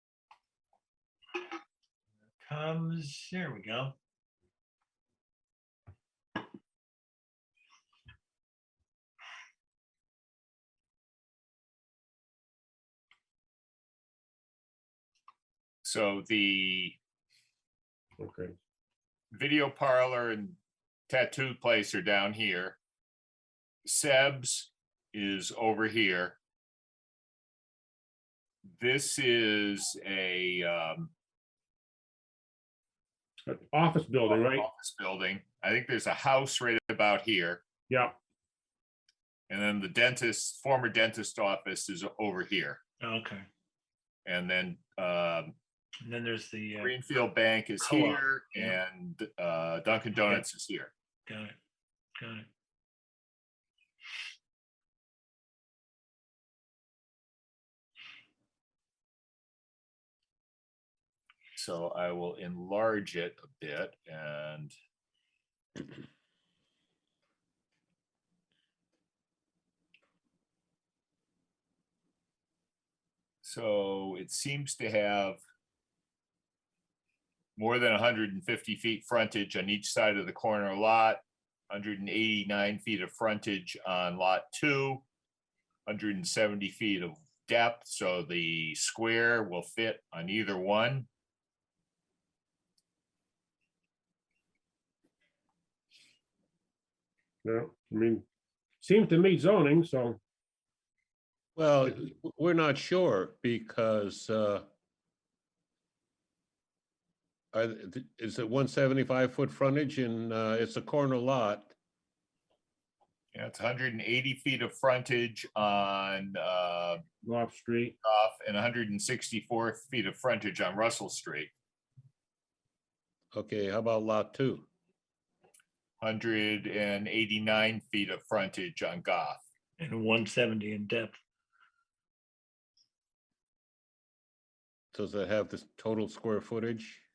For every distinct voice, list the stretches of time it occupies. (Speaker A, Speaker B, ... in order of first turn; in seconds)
Speaker A: 2.4-3.9, 43.0-43.5, 46.0-47.0, 47.8-48.8, 50.1-50.5, 51.3-51.5, 52.2-52.5, 129.8-131.2
Speaker B: 15.8-17.0, 19.3-20.6, 21.1-22.8, 23.8-26.4, 28.7-31.1, 34.2-37.6, 39.5-42.8, 44.2-45.5, 46.8-50.9, 61.6-64.7, 73.4-75.4, 77.6-85.0, 85.9-91.1, 113.3-117.0, 118.0-121.5, 126.0-129.4
Speaker C: 18.2-18.5, 33.5-34.7, 37.9-38.1, 97.4-98.2, 98.8-100.2, 117.2-118.0
Speaker D: 101.5-104.7, 107.5-111.7, 123.3-124.7, 134.9-137.0